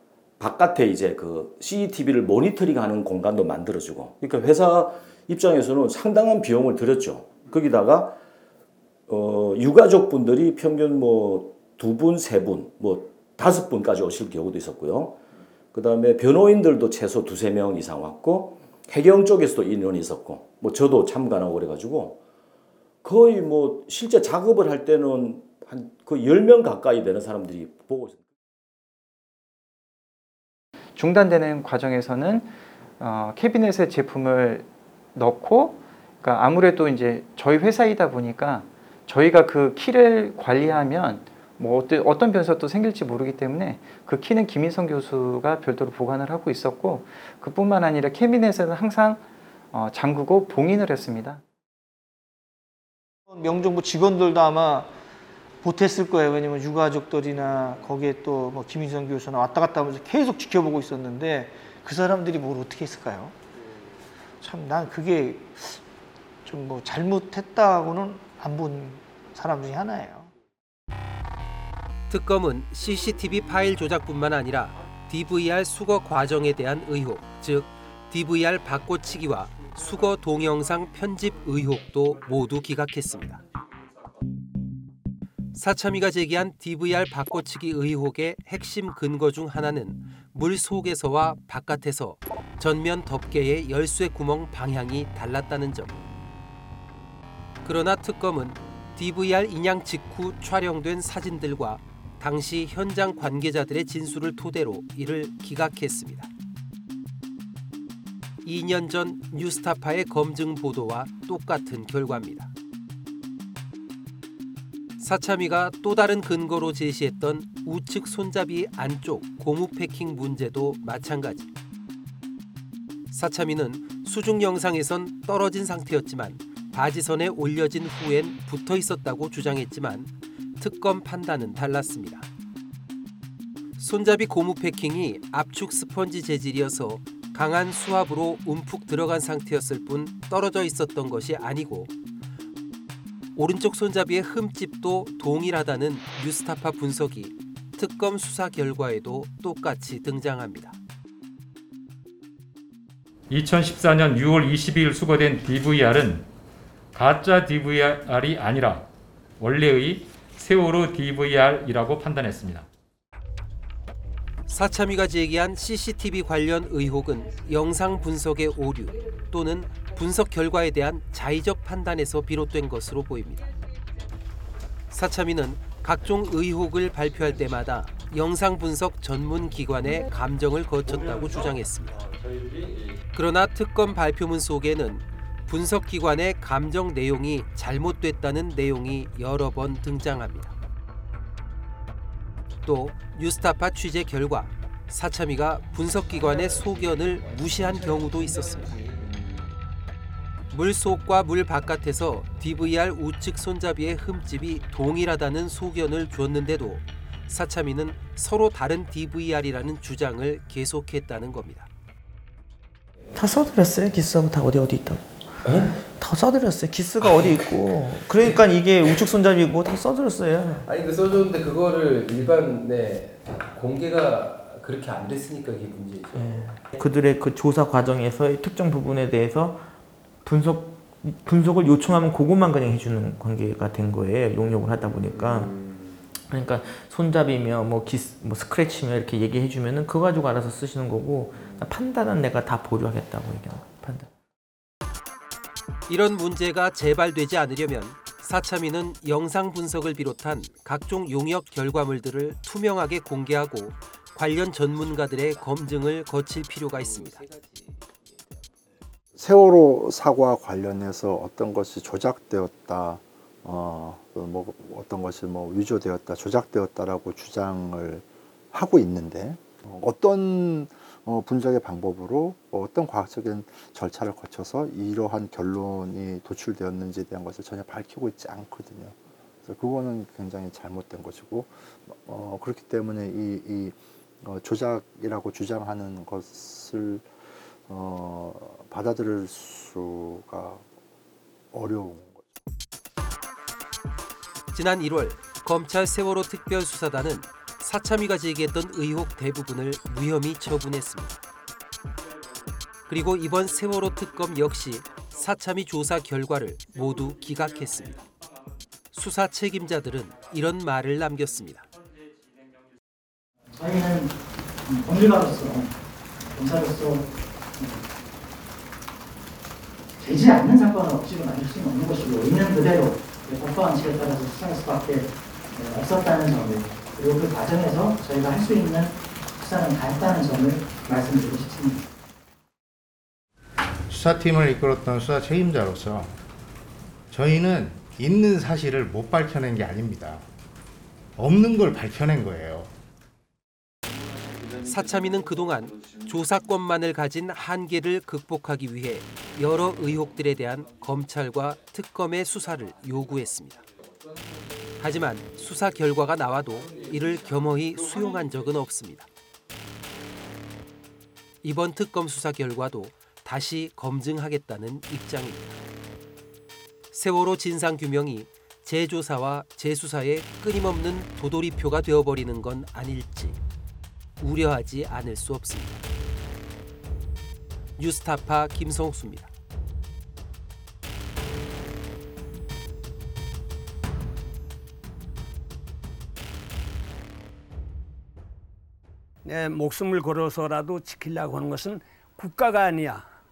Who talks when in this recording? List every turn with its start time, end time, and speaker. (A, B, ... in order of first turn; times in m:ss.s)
0:00.4-0:08.2 A
0:09.1-0:15.2 A
0:15.7-0:22.2 A
0:23.0-0:28.2 A
0:31.0-0:51.4 B
0:53.3-0:54.9 C
0:55.6-1:03.3 C
1:04.4-1:05.8 C
1:06.4-1:10.3 C
1:12.1-1:23.4 D
1:25.5-1:36.0 D
1:37.6-1:46.3 D
1:48.4-1:52.5 D
1:55.0-2:01.5 D
2:03.1-2:12.3 D
2:13.8-2:21.9 D
2:23.3-2:30.8 D
2:33.3-2:36.3 E
2:36.9-2:38.9 E
2:39.4-2:42.7 E
2:44.5-2:53.5 D
2:54.9-3:02.0 D
3:03.1-3:10.5 D
3:12.6-3:18.9 D
3:20.5-3:31.7 D
3:33.1-3:40.7 F
3:40.8-3:42.9 G
3:43.6-3:43.9 G
3:44.4-3:45.9 G
3:46.1-3:49.7 F
3:50.2-3:55.6 F
3:56.3-4:04.1 F
4:05.9-4:17.2 D
4:16.8-4:17.7 G
4:19.2-4:47.1 H
4:47.7-4:50.6 H
4:51.5-4:52.2 H
4:54.5-5:01.2 D
5:02.9-5:08.0 D
5:08.9-5:11.7 D
5:13.6-5:14.1 I
5:14.7-5:15.7 I
5:16.4-5:17.0 I
5:20.1-5:25.0 I
5:25.5-5:31.8 I
5:33.9-5:36.1 J
5:37.1-5:40.2 J
5:41.2-5:42.7 J
5:44.6-5:53.6 D
5:54.8-5:59.1 D
6:01.4-6:05.6 D
6:06.9-6:13.4 D
6:14.2-6:15.8 D
6:17.8-6:19.3 D
6:29.2-6:33.0 K